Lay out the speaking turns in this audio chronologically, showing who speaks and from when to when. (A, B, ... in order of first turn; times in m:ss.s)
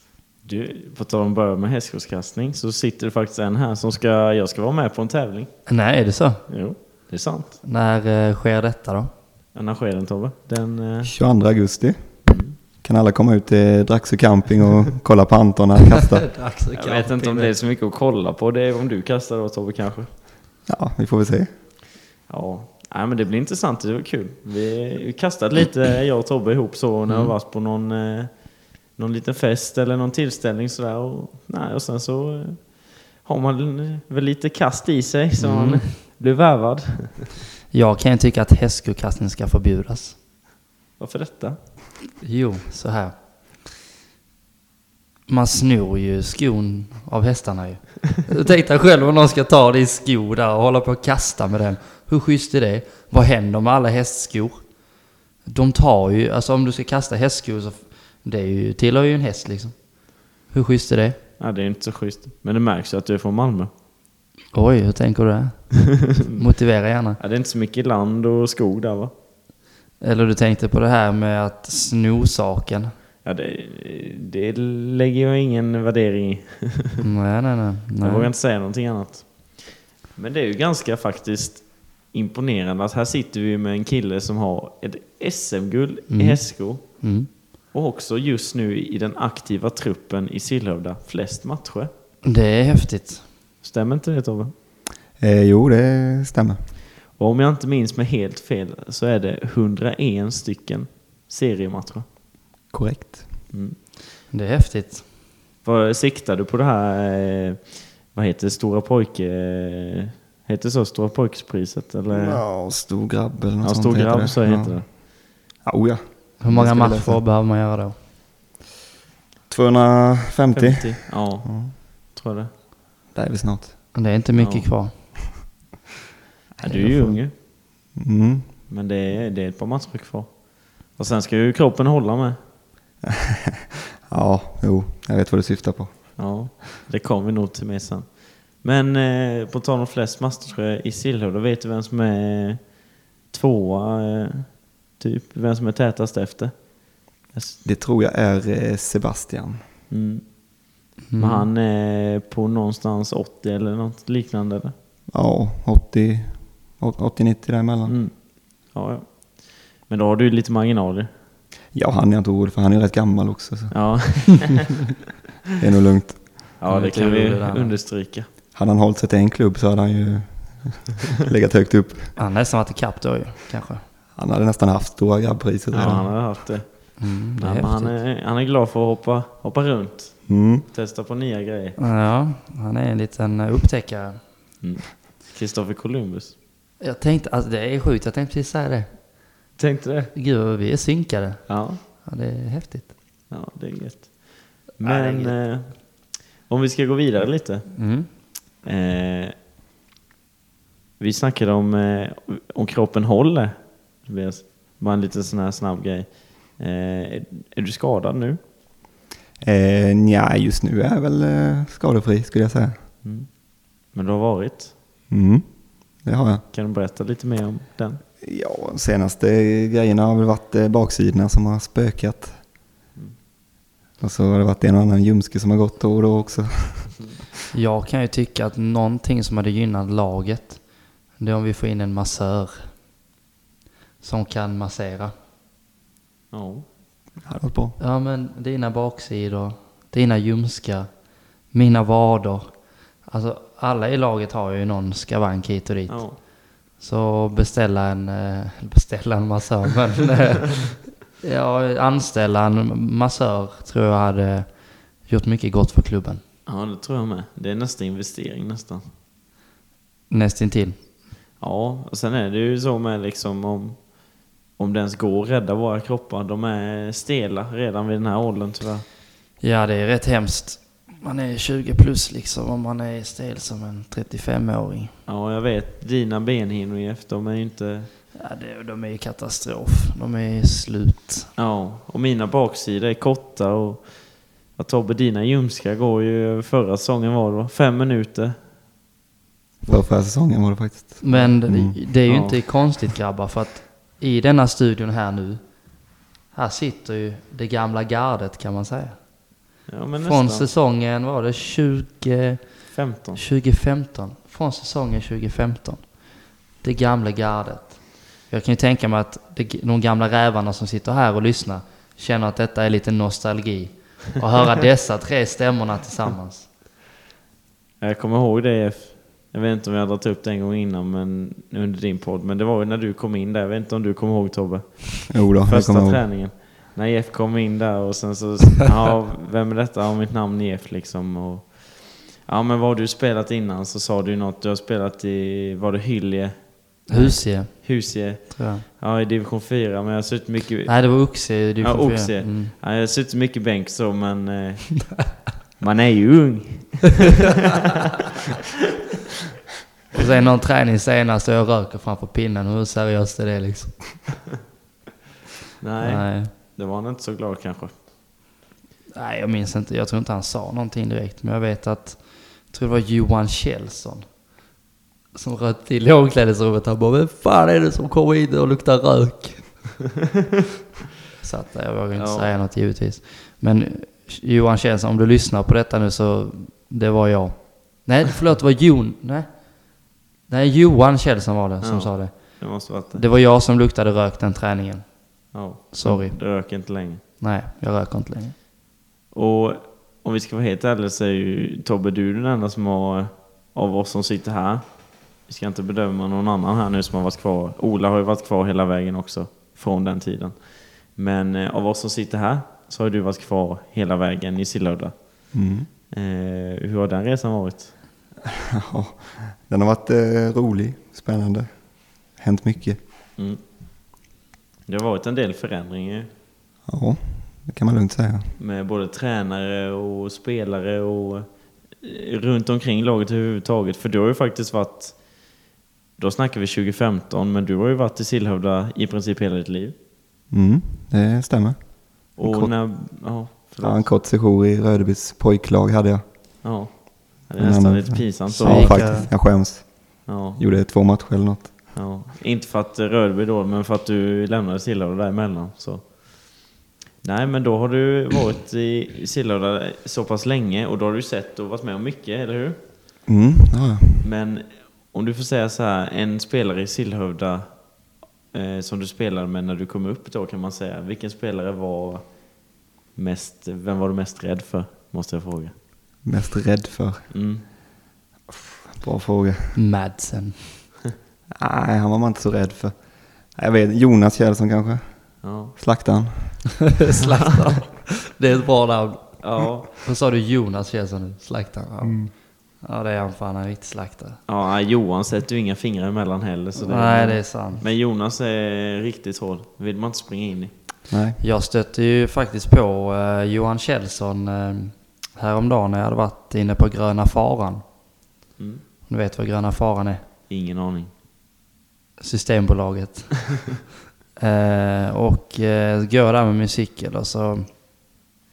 0:00.4-0:05.5 A
0:05.7-0:06.4 B
0:06.5-0:07.6 A
0:07.6-0:09.1 B
0:09.5-0:11.1 A
0:11.0-0:12.0 C
0:12.3-0:12.5 A
0:12.8-0:16.2 C
0:15.9-0:17.5 B
0:16.7-0:20.1 A
0:20.7-0:21.5 C
0:22.3-0:37.3 A
0:35.4-0:35.8 B
0:37.7-0:40.2 B
0:41.0-0:41.6 A
0:42.2-0:43.1 B
0:45.3-0:54.6 B
0:55.4-0:59.7 B
1:00.5-1:01.2 B
1:01.4-1:03.7 A
1:04.5-1:07.2 B
1:07.2-1:09.1 A
1:10.0-1:12.9 B
1:13.2-1:17.0 A
1:17.0-1:18.3 B
1:18.0-1:27.1 A
1:26.1-1:27.3 B
1:27.7-1:31.9 A
1:32.2-1:33.2 B
1:33.6-1:34.5 A
1:35.2-1:36.6 C
1:37.2-1:42.0 A
1:42.7-1:43.3 C
1:43.5-1:43.8 A
1:44.3-1:45.0 B
1:45.6-1:52.4 A
1:52.1-1:55.0 C
1:53.6-1:54.8 A
1:55.6-1:57.2 C
1:56.4-1:57.9 B
1:59.5-2:01.7 C
2:00.5-2:02.5 A
2:03.1-2:03.7 C
2:03.9-2:04.9 B
2:04.4-2:04.7 A
2:06.6-2:07.0 C
2:06.6-2:07.3 A
2:06.7-2:07.1 B
2:08.0-2:08.5 C
2:08.7-2:12.4 A
2:13.0-2:16.2 C
2:16.2-2:22.6 A
2:23.3-2:26.5 A
2:27.3-2:27.6 A
2:27.6-2:29.6 C
2:29.9-2:30.2 A
2:31.1-2:31.5 B
2:31.2-2:34.7 A
2:35.1-2:38.0 C
2:37.9-2:38.1 A
2:38.7-2:41.1 A
2:41.7-2:43.7 C
2:43.7-2:44.9 A
2:45.6-2:46.5 C
2:46.6-2:48.3 A
2:46.7-2:47.7 B
2:48.5-2:52.1 C
2:52.2-2:53.8 B
2:54.2-2:56.1 C
2:55.7-2:56.6 A
2:57.0-2:57.9 B
2:57.4-3:01.8 A
3:00.3-3:00.6 C
3:01.8-3:04.2 B
3:04.6-3:06.3 A
3:06.8-3:08.9 B
3:09.6-3:10.1 A
3:10.1-3:12.9 B
3:11.5-3:11.8 A
3:13.3-3:17.7 A
3:14.8-3:15.3 B
3:17.7-3:18.1 B
3:18.6-3:19.3 A
3:21.0-3:28.4 A
3:29.4-3:32.8 C
3:33.0-3:33.3 A
3:33.9-3:34.7 A
3:35.1-3:35.4 C
3:36.0-3:36.4 C
3:36.5-3:38.0 A
3:38.2-3:42.4 C
3:44.0-3:47.0 C
3:47.5-3:50.6 B
3:51.2-3:52.7 B
3:54.0-3:55.1 B
3:56.3-3:56.7 A
3:57.2-3:57.8 C
3:57.8-4:00.9 B
4:01.5-4:02.5 B
4:03.1-4:06.2 B
4:05.9-4:06.2 A
4:06.8-4:14.5 B
4:15.0-4:16.2 B
4:16.4-4:18.8 A
4:20.1-4:20.8 B
4:21.4-4:23.8 A
4:24.6-4:28.8 A
4:29.4-4:34.9 B
4:35.0-4:37.9 A
4:38.2-4:41.3 B
4:41.4-4:48.4 A
4:49.6-4:51.8 C
4:51.0-4:55.4 B
4:52.0-4:52.4 A
4:56.3-4:59.0 B
4:59.7-5:00.5 A
5:00.0-5:02.5 B
5:02.7-5:03.2 A
5:03.1-5:05.9 B
5:06.6-5:16.5 B
5:17.8-5:48.1 A
5:25.1-5:26.0 C
5:36.9-5:38.6 B
5:40.7-5:42.5 B
5:49.9-5:54.1 B
5:55.6-5:57.7 A
5:55.8-5:56.3 B
5:58.9-6:04.0 B
6:05.1-6:09.7 B
6:11.2-6:19.5 B
6:11.9-6:12.3 A
6:20.3-6:24.9 B
6:21.6-6:23.0 A
6:25.3-6:27.0 A
6:25.7-6:26.2 B
6:27.2-6:28.3 B
6:29.1-6:34.6 A
6:35.2-6:45.0 A
6:45.3-6:45.7 C
6:45.9-6:47.7 A
6:48.3-6:52.8 C
6:54.7-6:56.1 A
6:56.7-6:58.3 C
6:58.4-7:01.3 A
7:01.8-7:05.0 A
7:06.0-7:09.7 A
7:10.3-7:12.6 C
7:12.2-7:13.9 A
7:13.6-7:16.0 C
7:16.4-7:19.2 A
7:17.4-7:21.7 C
7:18.4-7:19.1 B
7:20.0-7:20.4 A
7:21.7-7:26.5 A
7:27.0-7:32.6 A
7:33.1-7:34.0 C
7:34.0-7:42.3 A
7:42.9-7:45.5 A
7:46.0-7:47.1 C
7:47.1-7:47.4 A
7:48.3-7:49.6 C
7:49.5-7:50.7 B
7:51.4-7:52.7 C
7:53.3-7:56.5 C
7:55.2-7:55.5 A
7:56.8-8:04.2 B
7:59.2-7:59.7 A
8:01.8-8:02.1 C
8:04.3-8:10.5 A
8:06.6-8:07.6 B
8:10.9-8:11.2 C
8:11.2-8:17.6 B
8:18.8-8:20.0 B
8:20.3-8:20.9 A
8:22.0-8:23.5 B
8:24.2-8:27.5 B